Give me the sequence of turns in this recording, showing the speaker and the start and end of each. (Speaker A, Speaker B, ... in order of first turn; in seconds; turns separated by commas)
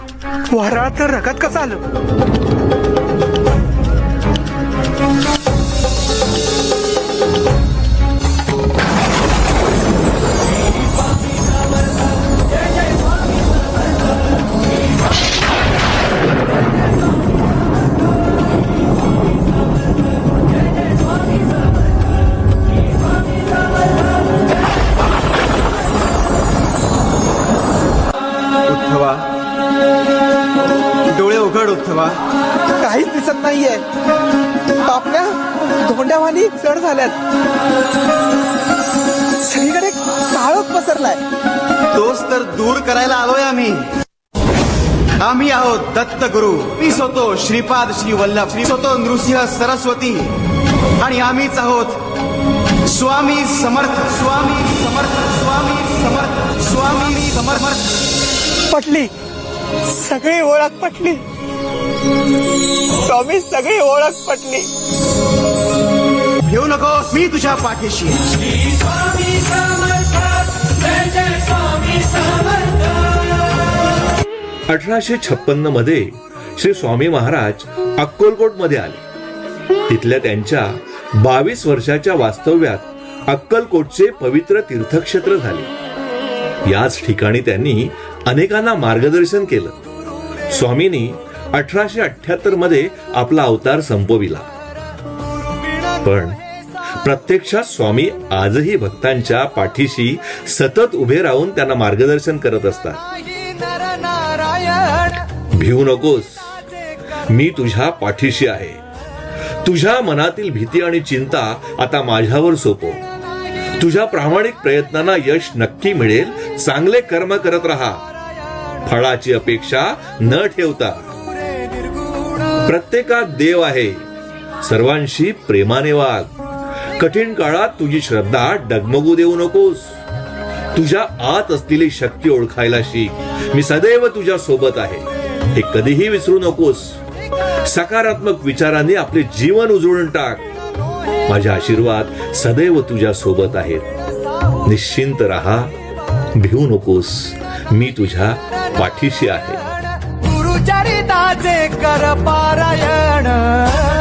Speaker A: 0.5-1.8, Speaker B: 28.6-29.3, Speaker B: 31.0-32.2, Speaker A: 32.8-33.8, Speaker A: 34.8-37.1, Speaker A: 39.4-41.2, Speaker B: 41.9-43.9, Speaker B: 45.2-50.4, Speaker B: 51.0-52.0, Speaker B: 52.8-57.9, Speaker A: 58.7-59.1, Speaker A: 59.9-61.2, Speaker A: 63.0-64.7, Speaker B: 66.4-68.3, Speaker A: 69.7-70.1, Speaker A: 71.0-71.4, Speaker C: 74.7-79.0, Speaker C: 79.9-85.7, Speaker C: 86.7-89.8, Speaker C: 90.5-94.5, Speaker C: 96.0-96.4, Speaker C: 97.0-103.0, Speaker C: 105.5-106.6, Speaker C: 107.3-108.8, Speaker C: 109.6-113.0, Speaker C: 113.7-118.0, Speaker C: 118.8-121.1, Speaker C: 122.5-124.0, Speaker C: 124.6-126.3, Speaker C: 127.0-130.0, Speaker C: 130.7-137.0, Speaker C: 137.6-140.4, Speaker C: 141.3-143.8, Speaker C: 144.6-145.7, Speaker C: 146.3-149.7